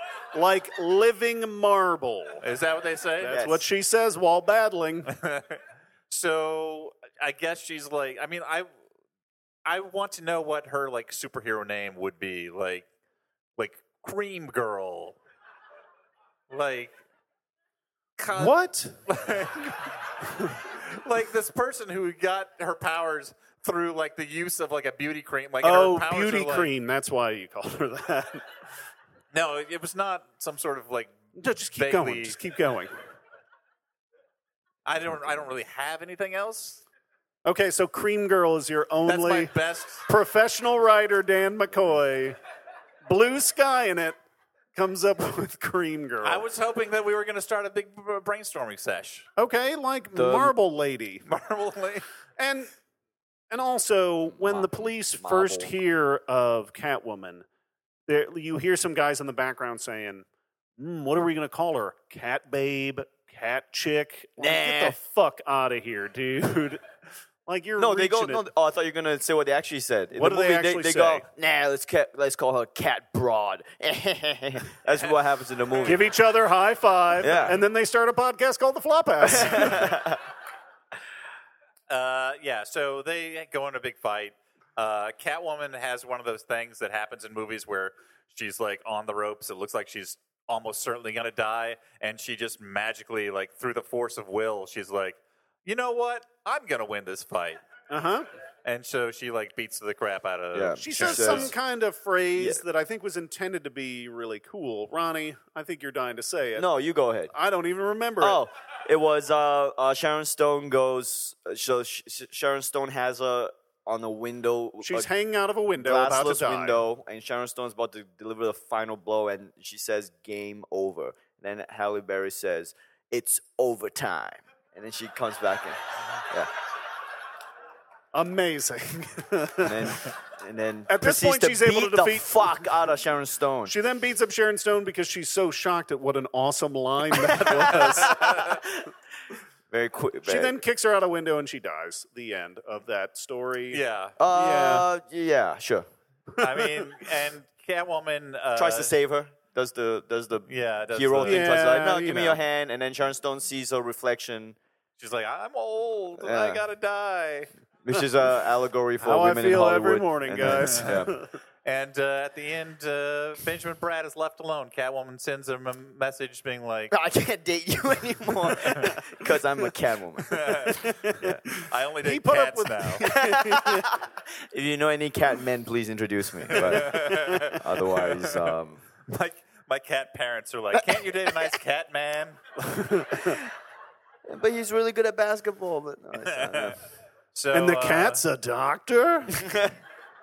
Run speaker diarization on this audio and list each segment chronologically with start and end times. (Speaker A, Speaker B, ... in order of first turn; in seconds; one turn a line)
Speaker A: 0.3-2.4
Speaker B: 2.4-3.4
Speaker A: 3.2-5.1
Speaker C: 3.3-3.6
Speaker B: 5.1-8.7
Speaker B: 9.7-12.9
Speaker B: 13.6-15.2
Speaker B: 16.5-17.0
Speaker B: 18.2-18.6
Speaker A: 18.4-19.0
Speaker B: 19.1-19.8
Speaker B: 20.7-26.7
Speaker A: 25.6-28.4
Speaker B: 29.3-31.2
Speaker A: 31.4-32.9
Speaker B: 31.8-32.4
Speaker B: 34.9-36.8
Speaker A: 37.5-39.5
Speaker B: 39.1-40.0
Speaker A: 40.1-42.4
Speaker A: 43.1-44.2
Speaker A: 44.8-46.5
Speaker B: 46.2-49.3
Speaker A: 49.4-51.2
Speaker C: 50.1-50.5
Speaker B: 51.3-52.0
Speaker A: 52.4-52.7
Speaker A: 53.5-57.5
Speaker C: 54.3-55.7
Speaker A: 58.1-60.2
Speaker A: 60.8-66.8
Speaker C: 64.4-65.0
Speaker A: 67.5-68.4
Speaker C: 67.8-76.0
Speaker A: 70.1-71.2
Speaker A: 75.8-79.9
Speaker C: 77.2-77.6
Speaker C: 79.2-80.2
Speaker B: 81.9-97.6
Speaker A: 97.9-98.3
Speaker B: 98.7-101.5
Speaker C: 100.5-101.5
Speaker A: 100.8-106.7
Speaker C: 102.4-102.6
Speaker C: 106.5-107.3
Speaker A: 107.3-108.4
Speaker C: 108.2-115.1
Speaker A: 114.8-116.8
Speaker C: 115.8-126.5
Speaker A: 128.1-130.0
Speaker C: 129.6-133.8
Speaker A: 130.9-132.7
Speaker A: 133.7-138.4
Speaker C: 137.4-138.7
Speaker B: 138.1-138.5
Speaker C: 139.7-140.6
Speaker A: 140.3-144.9
Speaker B: 143.7-144.2
Speaker C: 144.2-145.9
Speaker B: 146.4-148.9
Speaker A: 146.4-146.8
Speaker C: 148.6-154.6
Speaker B: 150.5-151.6
Speaker A: 151.2-152.4
Speaker B: 155.0-157.5
Speaker C: 156.2-156.6
Speaker C: 157.8-161.1
Speaker A: 159.0-161.3
Speaker B: 160.5-160.9
Speaker B: 161.7-166.9
Speaker C: 166.9-170.6
Speaker B: 170.3-170.8
Speaker A: 170.7-171.3
Speaker B: 171.6-173.1
Speaker A: 172.0-173.9
Speaker C: 173.0-178.8
Speaker B: 176.5-178.5
Speaker B: 179.1-182.4
Speaker A: 182.6-183.4
Speaker C: 184.3-186.8
Speaker B: 186.2-186.8
Speaker B: 187.3-188.2
Speaker A: 187.5-189.4
Speaker C: 189.4-189.7